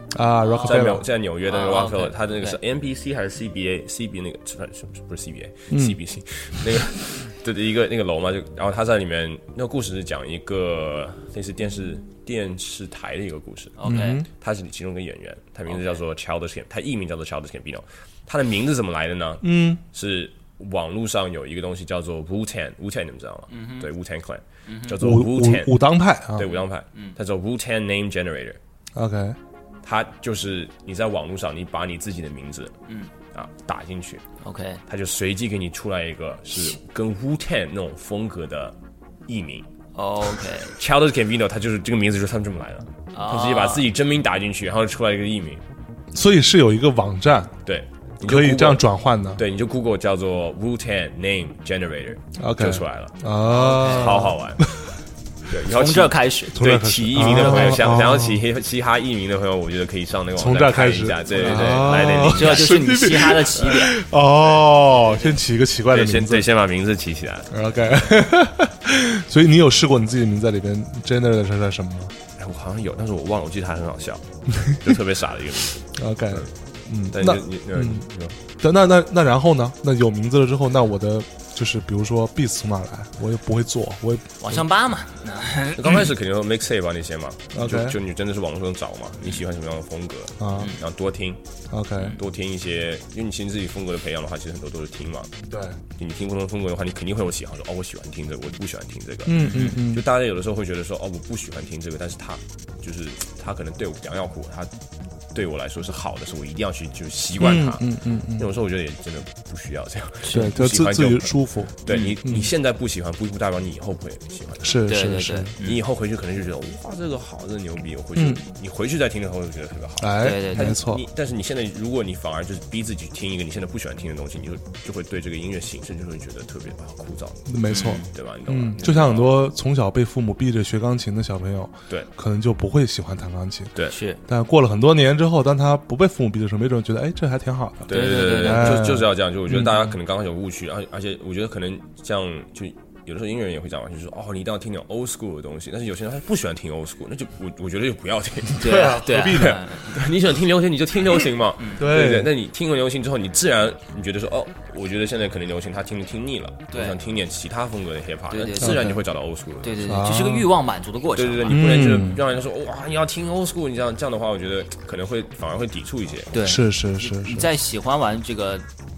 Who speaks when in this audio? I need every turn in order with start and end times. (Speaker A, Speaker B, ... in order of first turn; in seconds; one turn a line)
Speaker A: 0.1-1.1
Speaker B: 0.4-0.8
Speaker C: 0.6-28.6
Speaker B: 1.4-2.6
Speaker A: 5.7-6.0
Speaker B: 13.8-14.2
Speaker A: 13.8-14.3
Speaker B: 15.7-16.0
Speaker A: 19.4-19.8
Speaker B: 23.5-23.9
Speaker B: 24.6-25.0
Speaker A: 25.0-26.5
Speaker A: 28.9-29.4
Speaker C: 29.8-32.7
Speaker C: 33.3-34.2
Speaker B: 34.4-34.8
Speaker C: 34.9-38.7
Speaker C: 39.3-39.7
Speaker B: 40.0-40.7
Speaker C: 40.4-45.6
Speaker B: 43.1-43.8
Speaker A: 46.1-47.5
Speaker C: 47.6-53.2
Speaker A: 48.2-49.4
Speaker A: 52.4-54.7
Speaker B: 53.5-54.3
Speaker C: 53.7-54.6
Speaker C: 55.5-62.7
Speaker B: 55.7-56.6
Speaker A: 56.5-58.4
Speaker B: 57.3-57.9
Speaker A: 60.4-66.5
Speaker B: 61.4-64.0
Speaker B: 64.9-65.3
Speaker C: 65.9-67.6
Speaker A: 67.5-72.1
Speaker C: 72.4-76.5
Speaker A: 75.9-78.0
Speaker C: 77.1-78.4
Speaker A: 78.6-84.6
Speaker B: 84.4-86.0
Speaker C: 85.7-91.4
Speaker A: 87.5-88.0
Speaker A: 90.4-90.7
Speaker B: 90.5-90.8
Speaker A: 91.7-92.2
Speaker C: 92.1-95.3
Speaker A: 95.4-95.8
Speaker C: 96.0-104.7
Speaker A: 99.2-100.0
Speaker B: 99.4-99.8
Speaker C: 105.3-114.8
Speaker A: 107.4-108.5
Speaker B: 110.2-110.5
Speaker A: 110.3-112.5
Speaker B: 111.9-112.2
Speaker A: 114.6-115.5
Speaker B: 114.8-115.8
Speaker C: 115.6-129.5
Speaker A: 118.2-118.4
Speaker A: 120.0-121.0
Speaker B: 120.2-120.8
Speaker A: 127.5-133.7
Speaker B: 127.7-128.1
Speaker B: 133.9-134.2
Speaker A: 134.3-139.8
Speaker C: 137.9-160.0
Speaker B: 137.9-138.8
Speaker B: 148.6-149.9
Speaker A: 148.6-149.6
Speaker B: 151.6-151.9
Speaker A: 151.8-152.3
Speaker B: 156.7-156.9
Speaker B: 158.3-158.8
Speaker A: 158.6-159.0
Speaker B: 159.6-161.7
Speaker A: 159.8-160.5
Speaker C: 161.2-166.4
Speaker A: 161.4-162.2
Speaker B: 166.3-168.7
Speaker A: 166.4-167.5